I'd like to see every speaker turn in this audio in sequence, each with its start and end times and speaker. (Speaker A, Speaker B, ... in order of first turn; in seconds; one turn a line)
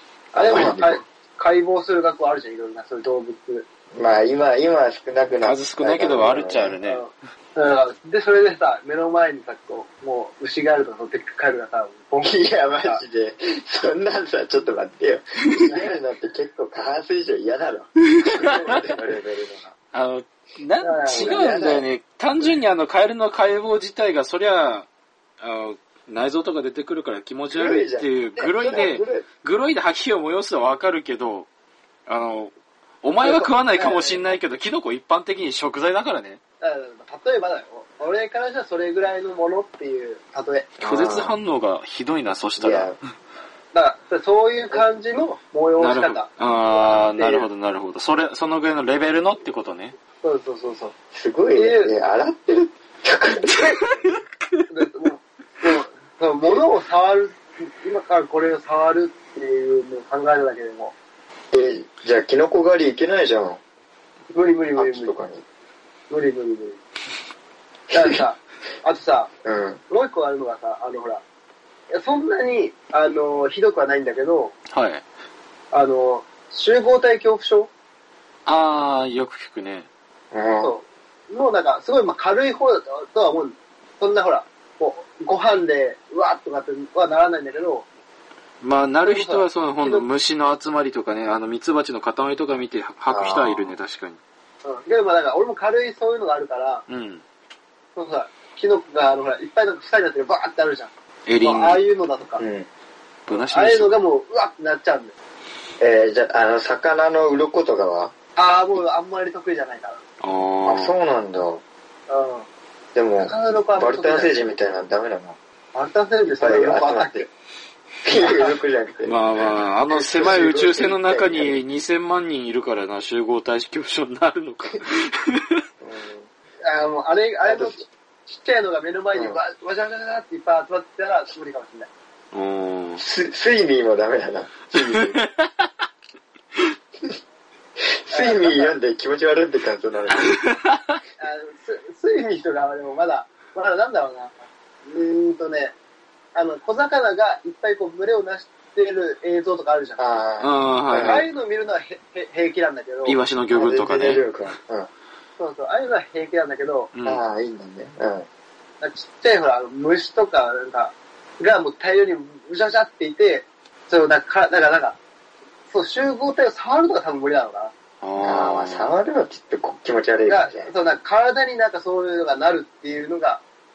Speaker A: 0.3-3.7
Speaker B: 0.4-1.0
Speaker B: 4.0-6.8
Speaker C: 5.4-7.0
Speaker A: 6.8-13.0
Speaker B: 12.2-19.7
Speaker C: 18.1-18.6
Speaker C: 19.9-24.9
Speaker A: 20.8-21.8
Speaker B: 21.1-21.8
Speaker C: 25.4-31.5
Speaker B: 27.5-29.3
Speaker C: 32.1-32.5
Speaker C: 33.0-36.4
Speaker A: 33.2-34.2
Speaker A: 36.6-40.7
Speaker B: 40.8-41.4
Speaker C: 40.8-43.0
Speaker B: 42.6-43.0
Speaker A: 43.7-47.5
Speaker C: 45.8-50.0
Speaker A: 50.2-50.9
Speaker B: 51.1-53.8
Speaker A: 51.5-51.9
Speaker C: 53.6-53.8
Speaker A: 54.7-60.9
Speaker B: 61.5-63.6
Speaker A: 64.3-65.2
Speaker B: 64.8-65.4
Speaker A: 66.1-66.8
Speaker B: 67.9-68.2
Speaker A: 67.9-69.3
Speaker B: 69.4-69.8
Speaker A: 69.9-71.2
Speaker A: 71.9-74.5
Speaker C: 74.7-75.0
Speaker A: 75.7-77.7
Speaker C: 78.5-79.9
Speaker B: 80.3-80.7
Speaker A: 80.6-87.9
Speaker C: 88.6-94.2
Speaker A: 89.0-90.1
Speaker B: 93.1-93.7
Speaker A: 94.6-96.8
Speaker C: 96.9-97.2
Speaker A: 98.0-102.4
Speaker C: 101.3-101.8
Speaker B: 102.4-102.7
Speaker C: 103.3-104.0
Speaker A: 103.3-105.1
Speaker B: 105.8-108.1
Speaker A: 108.4-110.0
Speaker C: 110.2-110.9
Speaker B: 110.7-111.6
Speaker A: 112.1-112.5
Speaker B: 113.0-115.4
Speaker A: 113.2-114.5
Speaker A: 115.7-117.3
Speaker B: 116.4-117.3
Speaker B: 118.0-121.6
Speaker A: 118.2-118.5
Speaker C: 119.0-125.6
Speaker B: 125.8-126.3
Speaker A: 126.6-131.9
Speaker B: 127.5-127.8
Speaker C: 132.3-133.0
Speaker B: 133.0-135.2
Speaker C: 134.9-135.5
Speaker B: 137.8-140.4
Speaker A: 138.1-138.8
Speaker C: 140.1-141.0
Speaker A: 141.2-145.7
Speaker A: 146.3-150.2
Speaker B: 150.0-151.3
Speaker C: 150.4-151.3
Speaker A: 151.0-153.2
Speaker C: 153.1-154.2
Speaker B: 153.5-154.9
Speaker A: 155.4-156.9
Speaker C: 156.9-157.2
Speaker B: 157.1-158.3
Speaker A: 158.8-165.0
Speaker A: 165.7-167.7
Speaker C: 168.0-168.9
Speaker B: 168.2-170.7
Speaker A: 170.3-173.4